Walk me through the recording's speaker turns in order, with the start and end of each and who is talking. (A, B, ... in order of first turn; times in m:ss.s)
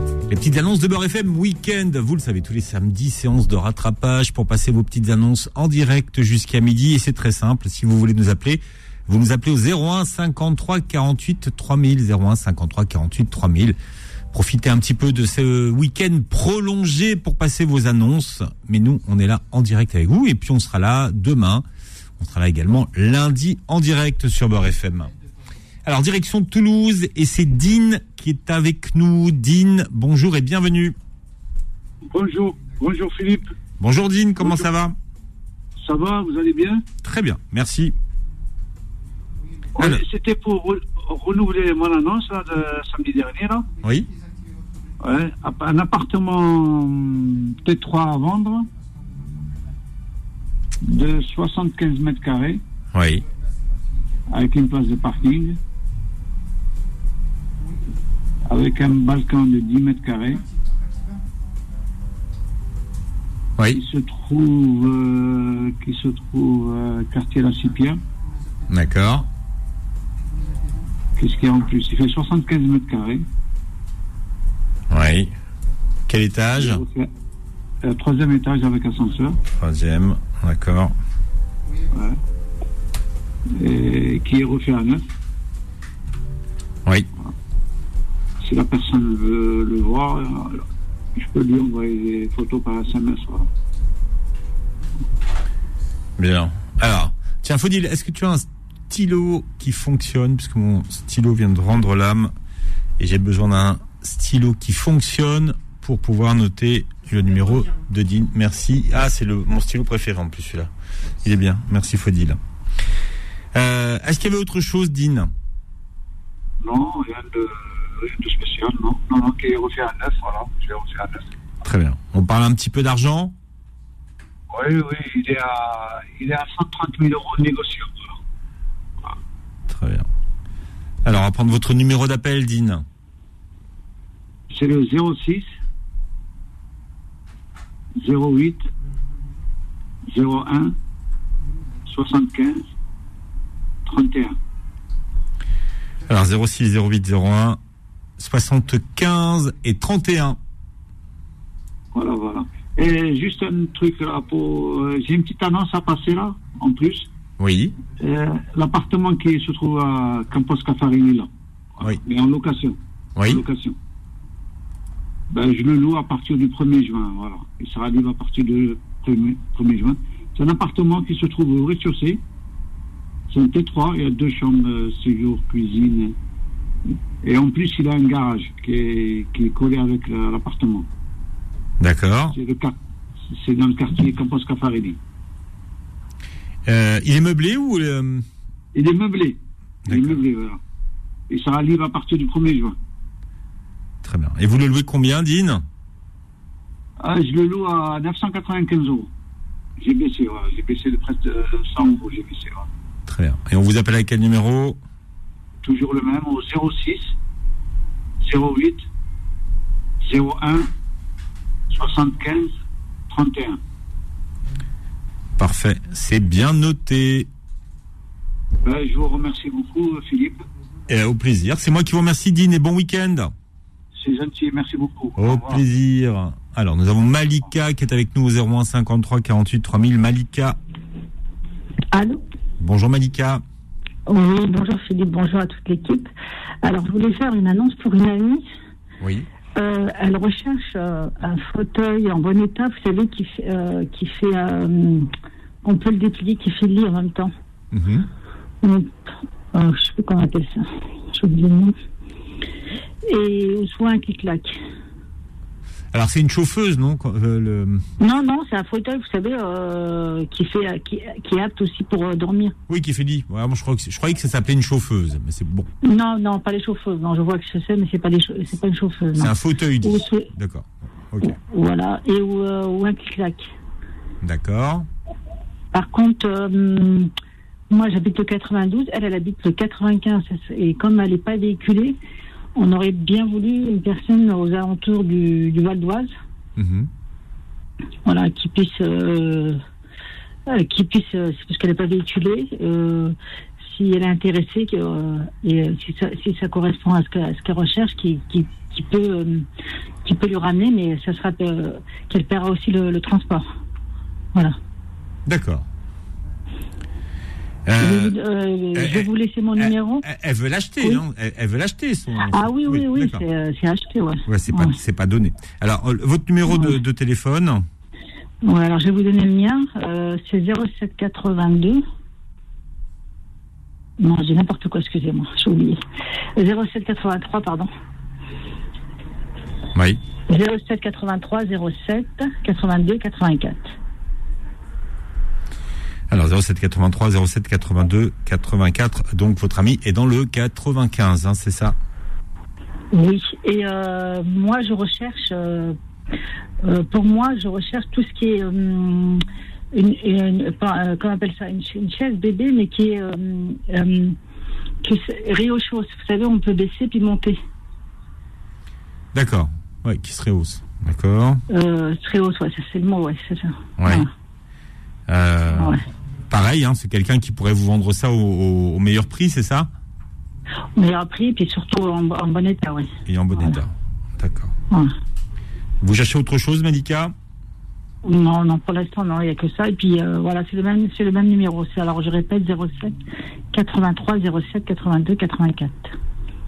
0:00.3-0:13.8 A
0:14.3-0:21.6 A
0:22.2-0:25.1 A
0:25.8-0:31.0 A
0:32.1-0:33.5 B
0:33.8-0:35.0 A
0:35.8-0:36.9 B
0:37.0-0:38.0 A
0:39.8-0:40.0 A
0:39.8-0:43.7 B
0:43.8-0:44.1 A
0:45.0-0:48.7 B
0:50.8-0:52.6 B
0:52.9-0:53.2 A
0:54.3-0:55.6 B
0:58.4-1:00.5 B
1:03.6-1:03.8 A
1:03.7-1:08.0 B
1:08.7-1:09.3 A
1:11.2-1:13.3 B
1:14.9-1:15.3 A
1:16.1-1:16.8 A
1:16.6-1:17.1 B
1:17.8-1:19.4 B
1:19.6-1:20.9 A
1:21.9-1:22.2 B
1:23.5-1:25.0 B
1:28.4-1:33.5 B
1:36.2-1:42.3 A
1:43.0-1:50.7 A
1:51.2-1:52.4 A
1:53.5-1:55.3 A
1:56.6-2:01.3 B
2:01.6-2:03.3 A
2:04.5-2:08.2 B
2:09.7-2:10.1 A
2:11.0-2:12.8 A
2:14.5-2:15.5 B
2:18.0-2:18.7 B
2:20.1-2:20.8 B
2:21.9-2:22.6 B
2:23.8-2:24.4 B
2:26.1-2:27.6 A
2:28.2-2:30.4 A
2:31.9-2:37.1 B
2:37.4-2:37.8 A
2:38.0-2:43.8 B
2:43.2-2:43.4 A
2:45.3-2:52.2 B
2:53.3-2:56.2 B
2:57.2-3:00.9 B
3:01.8-3:02.4 A
3:02.3-3:02.8 B
3:03.3-3:05.0 B
3:06.7-3:08.2 A
3:08.7-3:10.6 B
3:09.9-3:10.2 A
3:11.3-3:12.8 B
3:14.0-3:15.6 A
3:17.0-3:19.1 B
3:19.8-3:22.7 B
3:23.1-3:24.8 A
3:25.6-3:27.2 B
3:28.2-3:28.9 B
3:30.0-3:30.7 B
3:31.7-3:32.5 B
3:33.1-3:33.6 B
3:35.4-3:37.3 A
3:38.6-3:40.4 B
3:40.9-3:43.3 A
3:44.0-3:45.6 B
3:45.2-3:50.6 A
3:51.9-3:52.2 C
3:52.6-3:53.4 A
3:54.1-3:56.1 C
3:56.6-3:58.5 C
3:59.0-3:59.3 A
3:59.6-4:05.1 C
4:05.6-4:07.3 C
4:07.7-4:08.1 A
4:08.6-4:09.0 C
4:09.5-4:11.7 C
4:13.0-4:14.6 C
4:15.9-4:17.8 A
4:18.0-4:22.6 C
4:22.7-4:25.7 A
4:25.8-4:30.3 C
4:29.2-4:31.4 A
4:31.2-4:33.5 C
4:34.2-4:34.9 A
4:35.7-4:37.1 C
4:37.7-4:42.0 C
4:42.6-4:46.1 C
4:46.6-4:46.9 A
4:48.0-4:49.6 C
4:50.5-4:59.5 C
5:00.0-5:03.5 C
5:05.3-5:05.7 A
5:07.7-5:08.2 A
5:07.8-5:10.0 C
5:08.8-5:13.2 A
5:12.2-5:14.8 C
5:14.3-5:17.7 A
5:18.4-5:21.8 C
5:24.0-5:25.8 C
5:26.4-5:27.7 C
5:29.7-5:30.0 A
5:30.3-5:33.7 C
5:36.1-5:41.8 A
5:42.9-5:45.8 C
5:46.6-5:54.2 C
5:54.8-5:57.4 C
5:59.1-6:01.4 A
6:01.5-6:04.1 C
6:03.8-6:04.1 A
6:05.1-6:09.7 A
6:05.6-6:05.8 C
6:10.8-6:12.9 C
6:13.1-6:14.5 A
6:15.8-6:17.1 A
6:18.0-6:23.0 C
6:23.5-6:25.9 C